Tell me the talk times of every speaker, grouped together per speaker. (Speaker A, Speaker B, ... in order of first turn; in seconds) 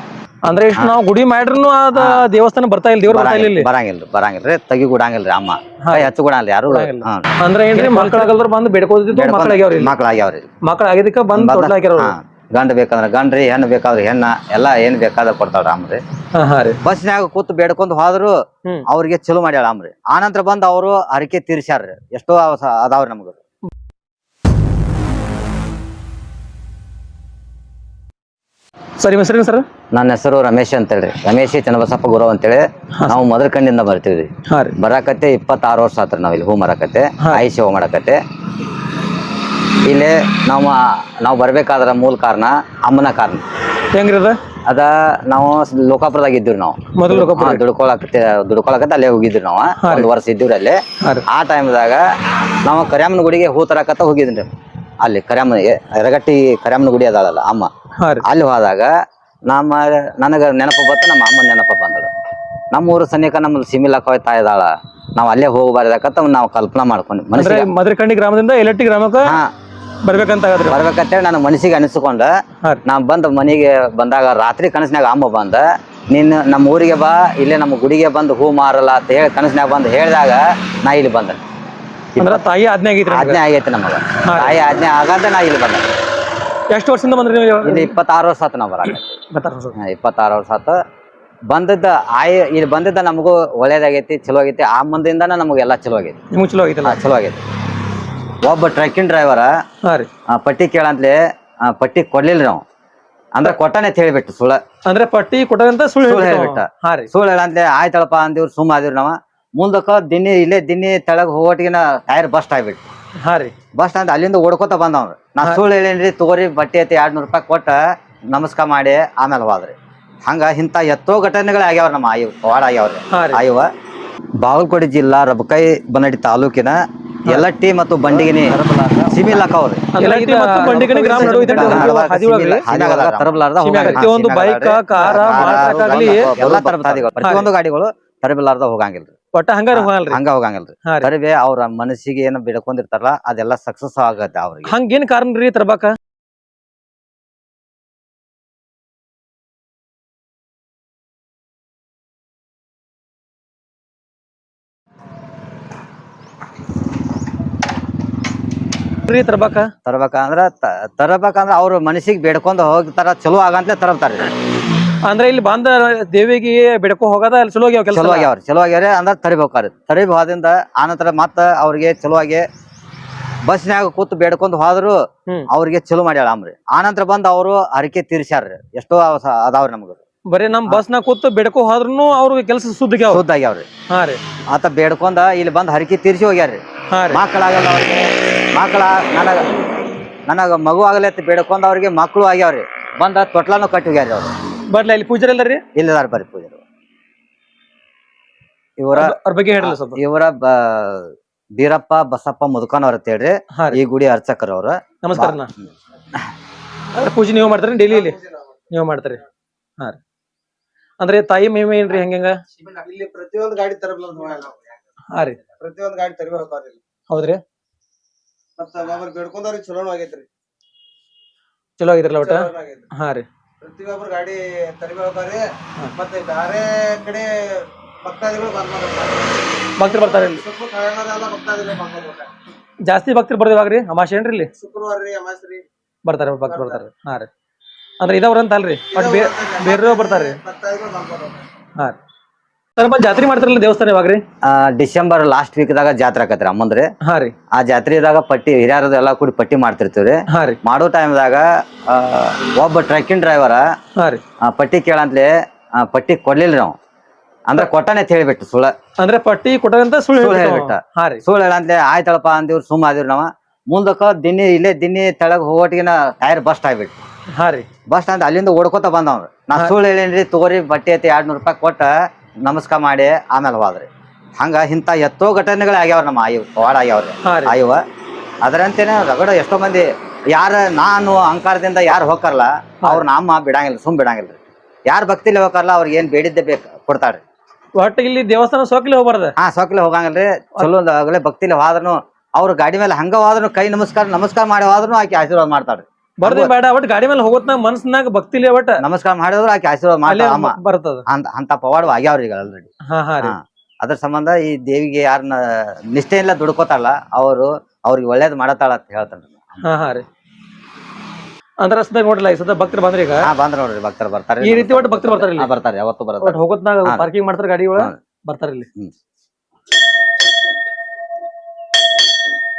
Speaker A: 0.5-3.7, 5.8-6.1, 6.7-9.9, 10.6-12.1, 16.3-16.8, 29.0-29.6, 34.5-34.7, 43.9-44.4, 46.9-47.6, 49.8-50.1, 58.0-58.2, 67.3-69.4, 70.0-70.8, 82.2-83.4, 84.2-84.6, 86.7-87.9, 89.3-89.7, 96.3-97.0, 99.8-100.1, 104.8-107.1, 113.2-113.5, 123.1-123.4, 130.0-136.3, 137.2-137.5, 139.3-140.2, 144.7-145.9, 159.1-159.7, 165.0-168.3, 180.3-183.2, 183.9-184.2, 186.9-187.2, 194.7-195.6, 198.9-200.0, 203.5-203.8, 205.0-205.5, 206.9-208.2, 208.7-209.2, 211.0-212.4, 215.1-215.4, 217.1-217.4, 221.8-223.2, 229.8-230.4, 232.8-234.5, 236.1-237.3, 238.0-240.4, 242.8-244.2, 247.0-247.3, 250.3-250.6, 254.0-254.2, 259.0-261.2, 267.3-267.7, 277.2-277.6, 287.8-289.3, 296.2-298.8, 300.1-301.0, 302.9-303.3, 309.6-310.0, 311.6-313.3, 314.4-315.5, 316.2-318.7
Speaker B: 1.9-2.3, 3.0-8.2, 9.1-10.5, 11.3-16.0, 16.8-18.4, 18.9-23.4, 29.9-38.2, 39.8-43.4, 44.6-52.0, 52.6-54.5, 55.0-57.7, 58.2-58.9, 59.5-62.1, 62.7-67.7, 69.2-69.5, 70.7-72.3, 72.8-81.4, 82.1-82.4, 83.1-85.9, 87.6-89.2, 89.8-90.8, 91.5-96.2, 96.8-97.4, 98.4-99.5, 100.3-102.6, 103.3-104.6, 106.0-112.8, 113.8-117.8, 118.3-123.7, 124.4-139.1, 139.7-144.7, 159.8-164.3, 167.9-172.4, 173.4-180.0, 183.0-183.7, 184.5-189.5, 190.3-194.3, 195.7-196.6, 198.8-205.4, 244.4-246.9, 247.5-253.6, 254.4-256.8, 257.5-258.7, 260.1-266.9, 267.9-271.9, 272.4-277.8, 278.4-287.2, 289.4-296.5, 298.8-300.6, 301.1-302.7, 303.2-310.0, 313.2-317.1
Speaker C: 130.8-132.2, 133.6-134.1, 135.2-136.5, 208.1-208.5, 212.6-214.7, 215.6-216.8, 218.6-220.3, 222.3-222.9, 223.6-229.4, 230.3-232.3, 234.5-235.6, 238.9-241.4